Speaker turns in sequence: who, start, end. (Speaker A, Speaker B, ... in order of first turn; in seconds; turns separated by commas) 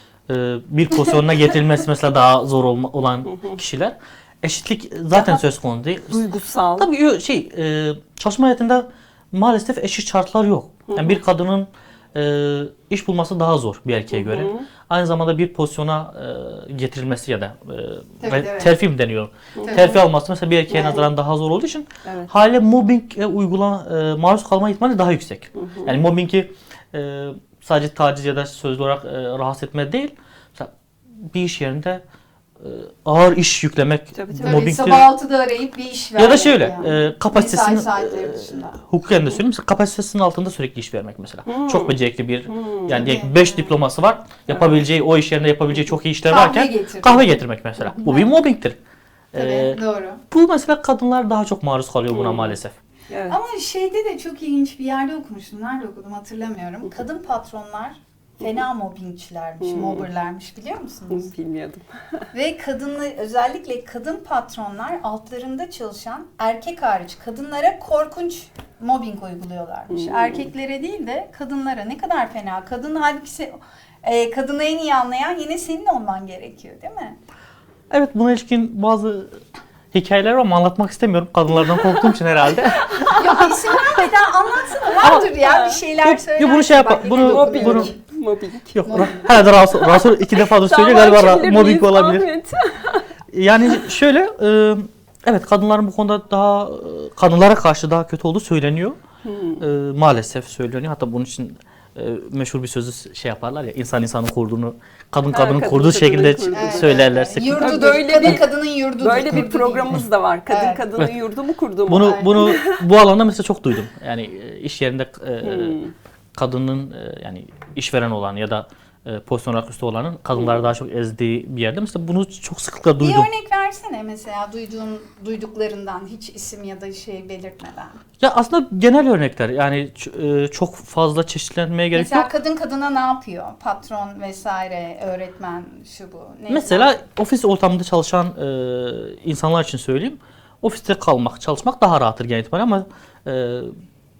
Speaker A: 0.3-6.2, Speaker B: 3.3-3.6, Speaker B: 5.1-5.4, Speaker B: 6.0-6.9, Speaker A: 6.8-32.0, Speaker B: 10.9-11.2, Speaker B: 14.1-14.7, Speaker C: 18.2-18.7, Speaker B: 19.6-20.0, Speaker C: 19.6-19.9, Speaker C: 20.7-21.0, Speaker B: 22.0-22.3, Speaker B: 25.6-25.9, Speaker A: 32.6-35.1, Speaker B: 34.1-34.8, Speaker C: 34.4-38.8, Speaker A: 36.1-48.8, Speaker B: 41.5-43.1, Speaker C: 42.9-43.7, Speaker B: 44.5-44.8, Speaker C: 46.3-48.3, Speaker C: 49.3-50.2, Speaker A: 49.3-52.7, Speaker B: 52.1-52.6, Speaker B: 53.1-53.4, Speaker C: 53.3-61.3, Speaker B: 59.6-60.1, Speaker B: 61.1-62.2, Speaker C: 62.3-77.2, Speaker B: 69.9-70.5, Speaker A: 77.9-79.4, Speaker A: 79.9-83.6, Speaker B: 82.8-83.4, Speaker C: 83.1-88.0, Speaker A: 85.0-85.3, Speaker B: 85.4-85.8, Speaker A: 86.0-87.9, Speaker B: 87.2-93.1, Speaker A: 88.7-92.3, Speaker C: 88.9-89.2, Speaker A: 93.3-99.0, Speaker B: 99.2-99.6, Speaker A: 99.6-108.4, Speaker B: 105.3-112.8, Speaker C: 106.5-110.8, Speaker A: 111.8-115.8, Speaker C: 112.0-112.4, Speaker B: 115.4-115.9, Speaker A: 116.3-123.3, Speaker C: 123.0-128.0, Speaker A: 128.2-132.3, Speaker C: 131.9-137.0, Speaker A: 136.5-143.7